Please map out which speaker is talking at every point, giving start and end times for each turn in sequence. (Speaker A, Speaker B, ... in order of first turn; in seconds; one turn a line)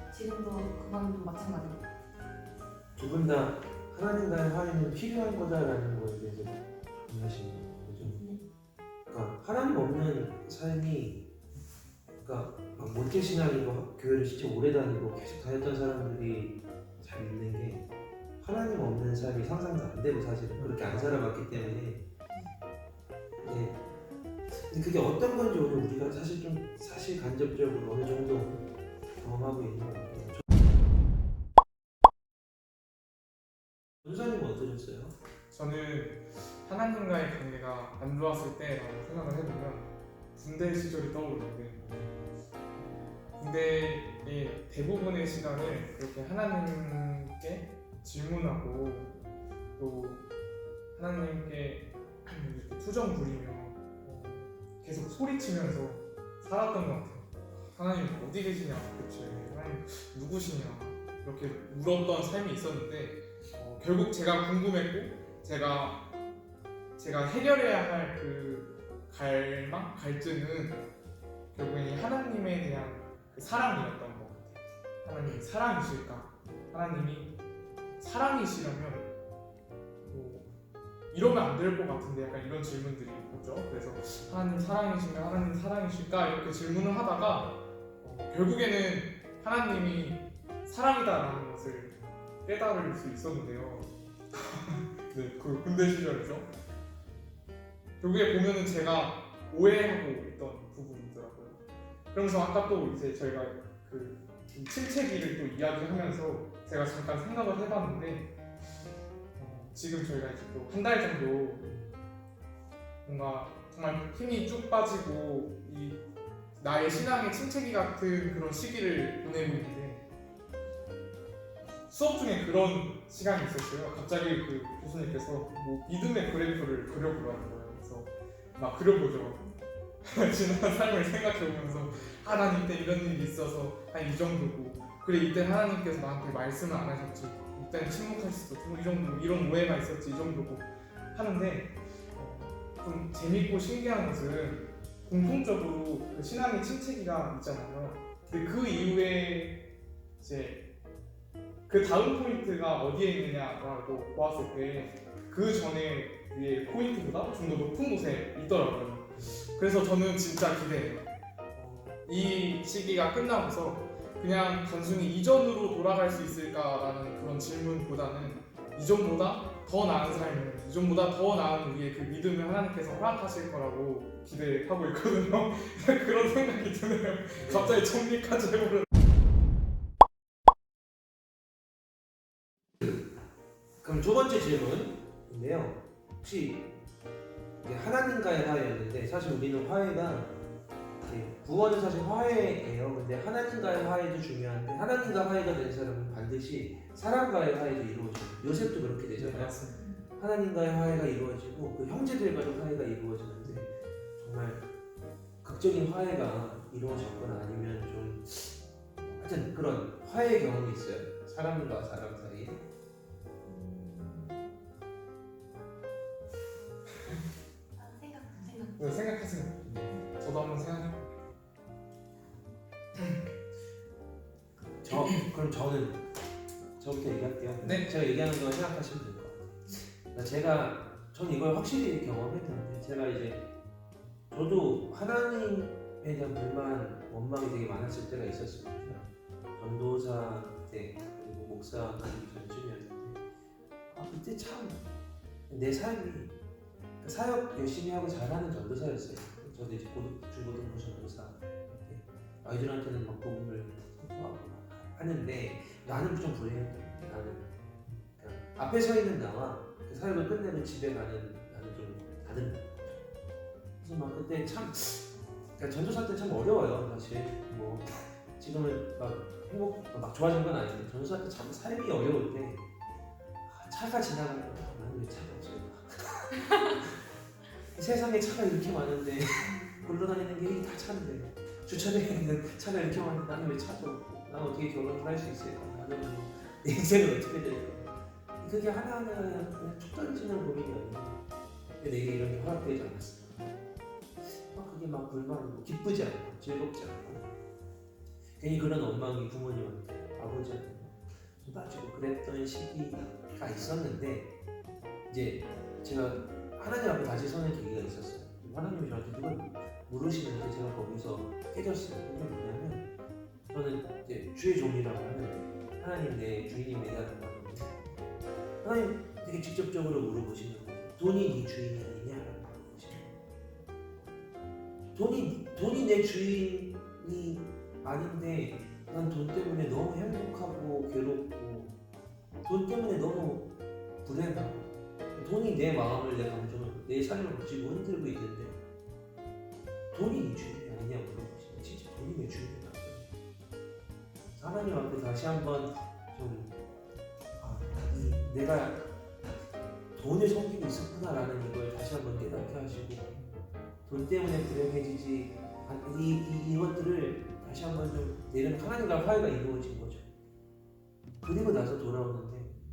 Speaker A: 0.1-1.8
Speaker B: 3.0-8.2
Speaker A: 8.1-8.4
Speaker B: 9.1-11.2
Speaker B: 12.2-17.8
Speaker B: 18.4-22.0
Speaker C: 20.6-21.7
Speaker B: 23.4-23.8
Speaker B: 24.5-28.6
Speaker B: 29.2-30.4
Speaker B: 34.0-35.1
Speaker C: 35.5-41.9
Speaker C: 43.4-49.1
Speaker C: 49.8-50.2
Speaker C: 51.0-66.0
Speaker C: 67.0-70.8
Speaker C: 71.5-77.3
Speaker C: 78.0-79.1
Speaker C: 80.0-80.5
Speaker C: 81.1-96.5
Speaker C: 98.0-101.6
Speaker C: 102.1-108.3
Speaker C: 109.3-111.7
Speaker C: 113.0-116.0
Speaker C: 116.6-120.0
Speaker C: 121.9-129.4
Speaker C: 130.0-149.6
Speaker C: 150.2-150.6
Speaker C: 151.7-178.9
Speaker B: 177.4-177.8
Speaker B: 183.8-186.7
Speaker B: 187.6-190.3
Speaker B: 191.0-199.6
Speaker C: 199.1-199.8
Speaker B: 200.2-204.6
Speaker B: 205.4-212.6
Speaker A: 213.4-214.4
Speaker A: 217.8-218.9
Speaker C: 218.8-221.1
Speaker B: 224.8-226.0
Speaker B: 226.8-233.4
Speaker C: 227.6-227.9
Speaker B: 234.3-243.2
Speaker B: 243.9-244.8
Speaker B: 245.5-246.3
Speaker B: 247.0-257.5
Speaker B: 258.1-262.7
Speaker B: 263.8-265.1
Speaker B: 265.6-272.6
Speaker B: 273.4-277.0
Speaker B: 277.7-291.2
Speaker B: 291.8-293.5
Speaker B: 294.5-297.2
Speaker B: 298.4-304.3
Speaker B: 305.1-312.9
Speaker B: 313.5-317.8
Speaker B: 318.6-323.1
Speaker B: 324.9-331.7
Speaker B: 332.4-333.5
Speaker B: 334.0-338.6
Speaker B: 339.9-343.1
Speaker B: 344.4-346.6
Speaker B: 347.4-348.8
Speaker B: 349.9-353.1
Speaker B: 353.9-360.1
Speaker B: 361.2-362.6